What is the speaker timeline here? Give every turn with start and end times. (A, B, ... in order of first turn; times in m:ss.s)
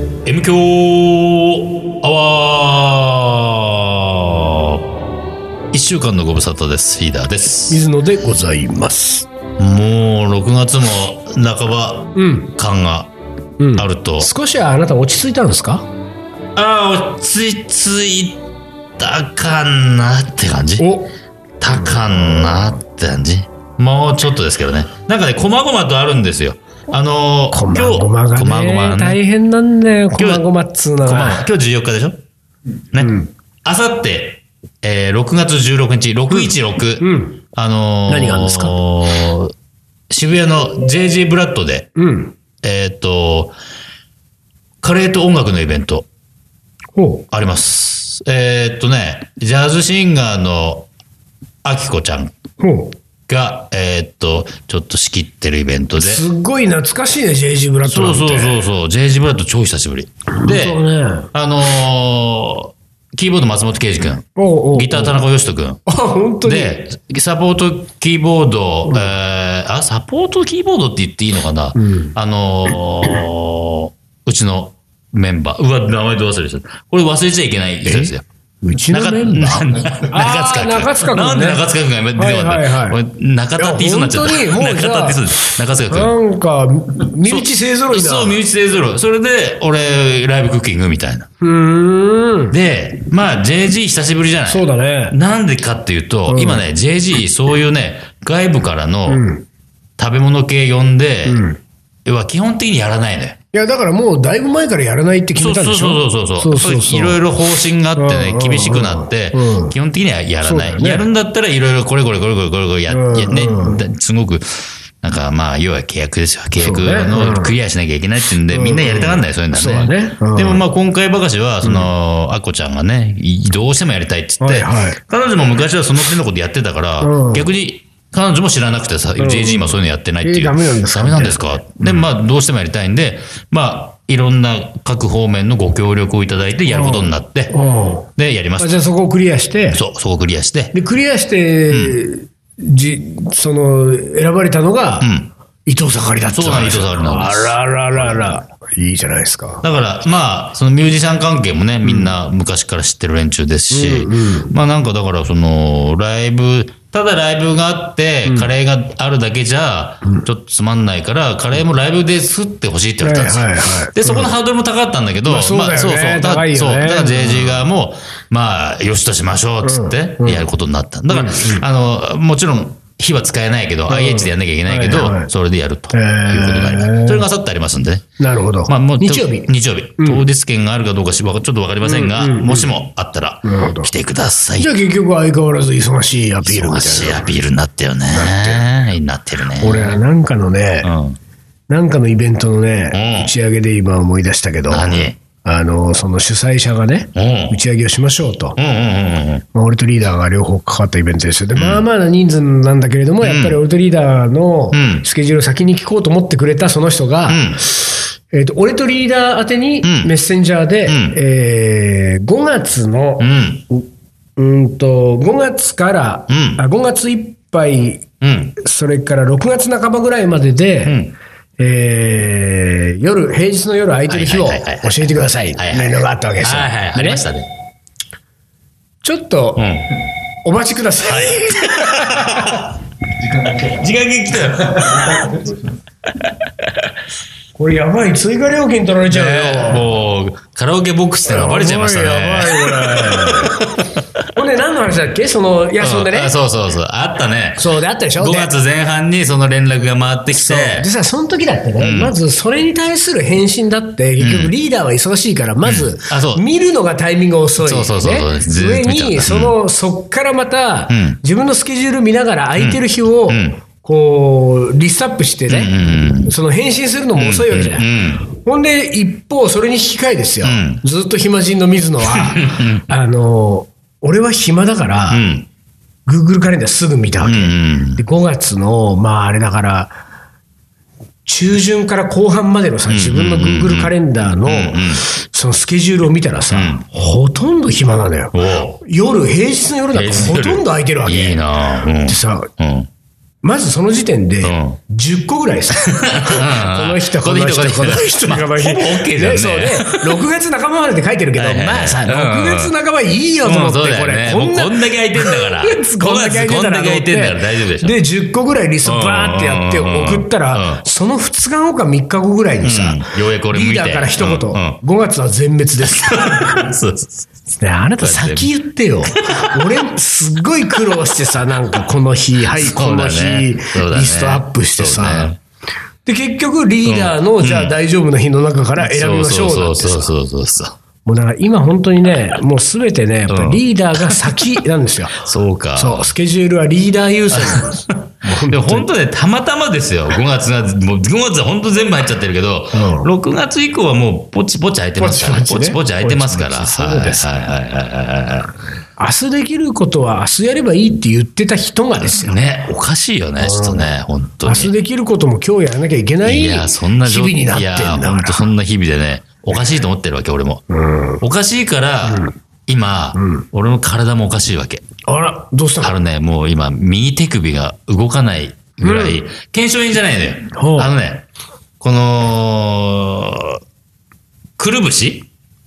0:00.2-0:04.8 A
0:05.7-0:07.8 A
0:07.7-0:09.3 B
0:09.6-0:13.1 A
0:12.2-0:12.5 B
0:13.6-0:15.8 B
0:13.8-0:14.3 A
0:16.6-0:18.4 A
0:19.0-0:20.9 A
0:20.8-0:21.1 B
0:21.6-0:29.2 A
0:21.7-0:22.7 B
0:27.5-0:31.5 B
0:30.1-0:30.4 A
0:31.0-0:32.2 A
0:32.9-0:39.5 A
0:33.0-0:33.3 B
0:36.3-0:37.4 B
0:38.1-0:38.8 B
0:40.1-0:41.9 A
0:42.0-0:42.3 B
0:42.6-0:43.5 A
0:44.8-0:46.1 A
0:47.0-0:47.2 B
0:47.3-0:50.9 A
0:51.6-0:52.3 A
0:52.6-0:52.9 B
0:53.3-0:56.2 A
0:56.0-0:58.6 B
0:57.8-1:05.8 A
1:00.3-1:01.3 B
1:04.4-1:05.2 B
1:05.9-1:06.8 B
1:06.4-1:18.2 A
1:08.9-1:09.1 B
1:11.8-1:12.2 B
1:17.8-1:23.0 B
1:18.9-1:26.1 A
1:23.6-1:28.4 B
1:27.2-1:31.3 A
1:31.4-1:32.6 B
1:32.5-1:39.2 A
1:34.5-1:35.2 B
1:36.3-1:36.6 B
1:39.1-1:39.4 B
1:40.0-1:41.4 A
1:41.2-1:41.6 B
1:42.0-1:43.4 A
1:43.5-1:47.2 B
1:45.4-1:54.4 A
1:47.9-1:49.8 B
1:50.4-1:51.1 B
1:52.9-1:53.8 B
1:55.0-2:17.5 A
1:56.6-1:57.5 B
1:58.5-2:00.6 B
2:01.6-2:01.9 B
2:04.4-2:05.0 B
2:07.0-2:07.5 B
2:09.2-2:12.0 B
2:16.7-2:19.8 B
2:18.2-2:18.7 A
2:19.7-2:20.8 A
2:20.7-2:25.1 B
2:21.7-2:22.0 A
2:25.0-2:25.3 A
2:25.6-2:29.6 B
2:26.3-2:28.4 A
2:29.6-2:58.0 A
2:31.8-2:32.1 B
2:33.7-2:34.5 B
2:38.2-2:38.5 B
2:43.0-2:44.3 B
2:45.2-2:47.6 B
2:49.6-2:50.5 B
2:51.1-2:51.6 B
2:53.9-2:55.3 B
2:55.9-2:57.2 B
2:58.2-3:00.2 B
2:58.7-3:04.7 A
3:01.8-3:02.7 B
3:03.4-3:03.9 B
3:04.5-3:07.3 B
3:06.4-3:10.0 A
3:08.1-3:08.6 B
3:09.6-3:10.9 B
3:10.8-3:11.2 A
3:11.7-3:18.6 B
3:12.9-3:13.3 A
3:14.7-3:15.2 A
3:17.1-3:17.6 A
3:18.6-3:19.4 A
3:19.5-3:33.8 B
3:21.5-3:21.8 A
3:23.2-3:23.6 A
3:24.7-3:25.0 A
3:27.3-3:27.6 A
3:29.8-3:30.1 A
3:30.9-3:31.2 A
3:33.2-3:33.6 A
3:34.4-3:38.0 B
3:36.3-3:36.6 A
3:38.2-3:38.6 A
3:38.6-3:41.0 B
3:40.8-3:41.1 A
3:41.6-3:47.2 B
3:44.1-3:47.5 A
3:49.0-3:49.7 B
3:49.6-3:49.8 A
3:50.4-3:52.6 B
3:51.0-3:52.7 A
3:53.5-3:55.5 A
3:54.8-3:55.4 B
3:56.2-3:56.6 A
3:57.6-3:59.9 B
3:59.1-4:04.0 A
4:01.3-4:03.8 B
4:04.3-4:06.3 B
4:05.8-4:10.9 A
4:07.6-4:08.5 B
4:10.3-4:35.2 B
4:11.8-4:12.2 A
4:14.2-4:14.5 A
4:15.6-4:16.4 A
4:17.6-4:19.6 A
4:20.9-4:21.2 A
4:22.6-4:23.6 A
4:25.5-4:26.3 A
4:27.2-4:28.2 A
4:30.4-4:30.8 A
4:32.0-4:32.8 A
4:35.1-4:35.5 A
4:36.0-4:40.0 B
4:37.2-4:38.0 A
4:41.2-4:51.4 B
4:42.9-4:45.0 A
4:46.5-4:46.8 A
4:48.3-4:48.8 A
4:49.9-4:52.9 A
4:52.0-4:52.5 B
4:53.4-5:16.6 B
4:54.4-4:54.8 A
4:55.9-5:00.2 A
5:01.4-5:02.7 A
5:03.4-5:08.0 A
5:08.8-5:10.8 A
5:12.6-5:14.8 A
5:15.9-5:17.3 A
5:17.6-5:25.3 B
5:18.0-5:18.5 A
5:19.3-5:19.8 A
5:22.5-5:25.4 A
5:26.0-5:30.1 B
5:26.8-5:27.7 A
5:28.8-5:30.8 A
5:31.0-5:35.2 B
5:33.3-5:34.6 A
5:35.2-5:36.1 A
5:35.8-5:38.9 B
5:37.3-5:48.5 A
5:42.7-5:43.1 B
5:45.0-5:47.3 B
5:49.0-5:52.4 B
5:52.0-5:54.7 A
5:53.4-5:53.9 B
5:54.4-5:58.4 B
5:56.2-6:00.6 A
6:00.7-6:01.2 B
6:01.2-6:04.8 A
6:02.0-6:02.3 B
6:03.1-6:03.4 B
6:05.1-6:06.0 B
6:05.8-6:11.2 A
6:08.8-6:09.2 B
6:10.5-6:10.9 B
6:11.8-6:13.6 A
6:14.6-6:15.3 A